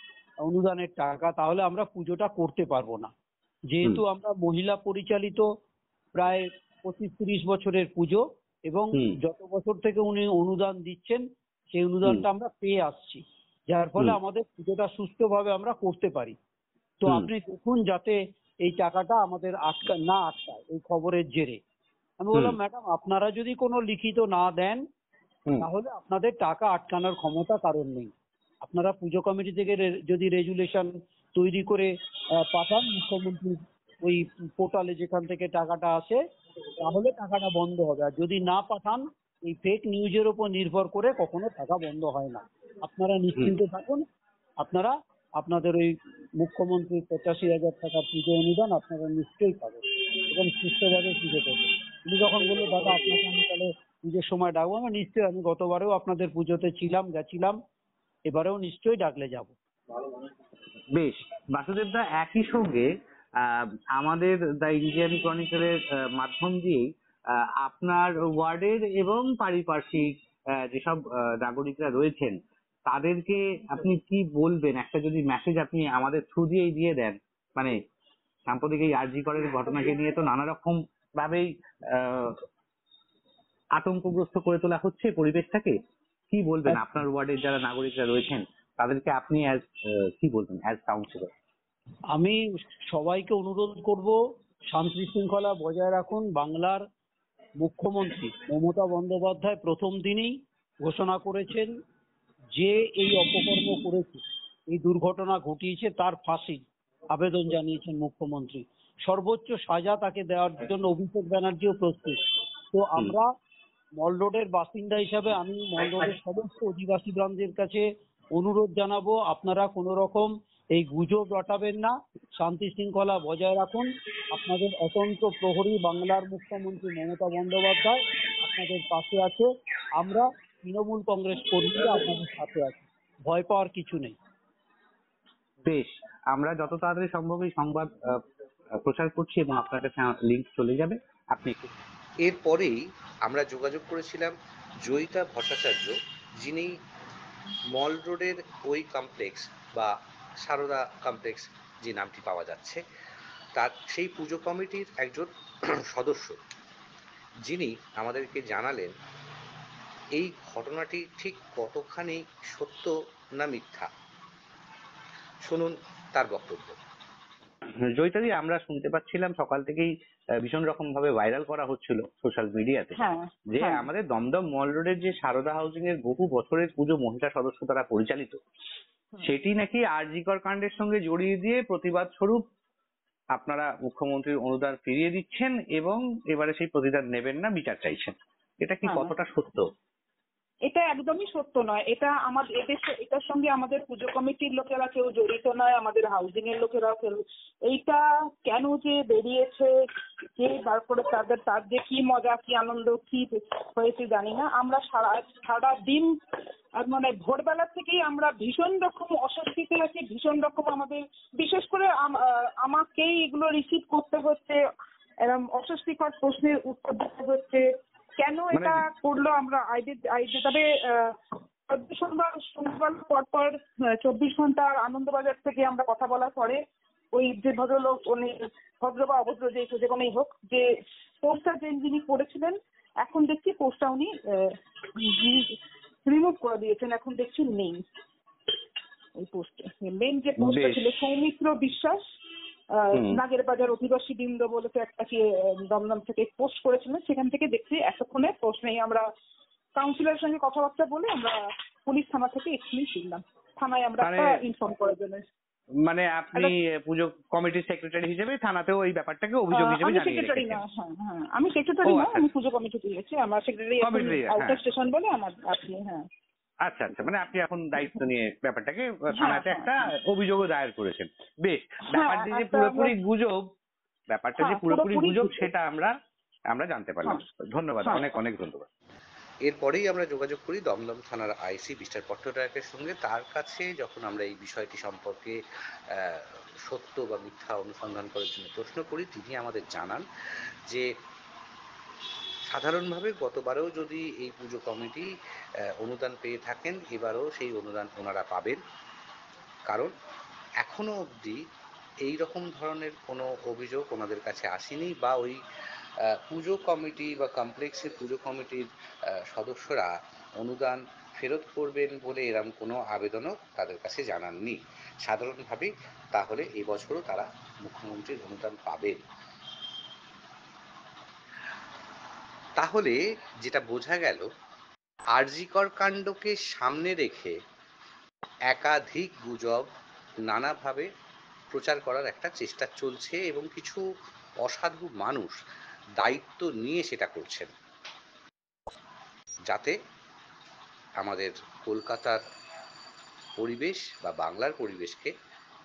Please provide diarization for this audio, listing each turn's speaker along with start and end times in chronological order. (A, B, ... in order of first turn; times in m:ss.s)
0:00.4-0:03.1 A
0:03.7-0:05.5 A
0:06.2-0:16.4 A
0:17.0-0:21.6 A
0:22.2-0:24.8 A
0:25.6-0:28.1 A
0:28.6-0:36.2 A
0:36.8-0:44.0 A
0:44.6-0:57.6 A
0:58.3-0:59.5 A
1:00.9-1:06.9 B
1:07.6-1:12.4 B
1:12.9-1:17.7 B
1:18.5-1:22.4 B
1:23.8-1:25.7 B
1:26.3-1:31.3 B
1:32.1-1:34.1 A
1:34.7-1:36.8 A
1:37.6-1:41.7 A
1:42.6-1:52.2 A
1:52.7-1:53.3 A
1:54.0-2:14.2 A
2:15.6-2:18.2 B
2:18.8-2:21.7 B
2:22.3-2:22.7 C
2:23.3-2:24.3 C
2:24.9-2:25.9 C
2:26.4-2:26.7 C
2:27.8-2:29.4 C
2:29.3-2:29.9 B
2:30.5-2:32.8 C
2:33.6-2:35.3 C
2:34.7-2:35.1 B
2:35.9-2:36.4 C
2:37.5-2:38.9 C
2:40.2-2:42.7 C
2:40.9-2:41.5 B
2:43.4-2:43.9 C
2:45.4-2:46.7 C
2:47.9-2:53.0 B
2:53.0-2:53.9 D
2:53.5-2:58.4 B
2:59.2-3:02.4 B
3:03.4-3:09.6 B
3:08.8-3:09.1 D
3:10.7-3:19.7 D
3:20.4-3:26.1 D
3:26.8-3:34.6 D
3:35.2-3:37.6 D
3:38.2-3:41.2 D
3:38.5-3:38.8 B
3:41.7-3:46.6 D
3:47.1-3:50.7 D
3:51.2-3:55.5 D
3:56.0-3:57.8 D
3:59.2-4:02.0 D
4:00.4-4:00.8 B
4:02.7-4:09.0 D
4:02.9-4:03.2 B
4:09.8-4:15.3 D
4:14.0-4:14.4 B
4:15.8-4:20.6 B
4:19.5-4:26.0 D
4:21.8-4:22.2 B
4:23.8-4:24.6 B
4:26.6-4:33.5 B
4:27.7-4:28.0 D
4:29.1-4:29.9 D
4:31.9-4:32.9 D
4:34.1-4:35.9 B
4:34.4-4:35.5 D
4:36.5-4:38.7 B
4:37.8-4:38.1 D
4:39.5-4:45.4 C
4:45.9-4:46.2 B
4:46.7-4:50.0 C
4:52.5-4:54.8 C
4:53.7-4:55.0 B
4:55.9-4:56.6 C
4:56.6-4:57.6 B
4:57.5-4:58.6 C
5:00.6-5:01.4 C
5:02.1-5:03.4 B
5:02.2-5:05.4 C
5:06.3-5:08.6 B
5:06.3-5:06.7 C
5:07.6-5:08.2 C
5:09.4-5:09.9 C
5:10.4-5:10.7 C
5:11.2-5:13.7 B
5:12.9-5:14.6 C
5:15.1-5:19.0 C
5:22.6-5:24.2 C
5:25.2-5:27.3 C
5:28.5-5:29.7 C
5:30.3-5:30.9 C
5:31.5-5:33.8 C
5:34.4-5:35.3 C
5:36.0-5:37.5 C
5:39.5-5:39.8 C
5:41.0-5:42.2 C
5:43.4-5:45.1 C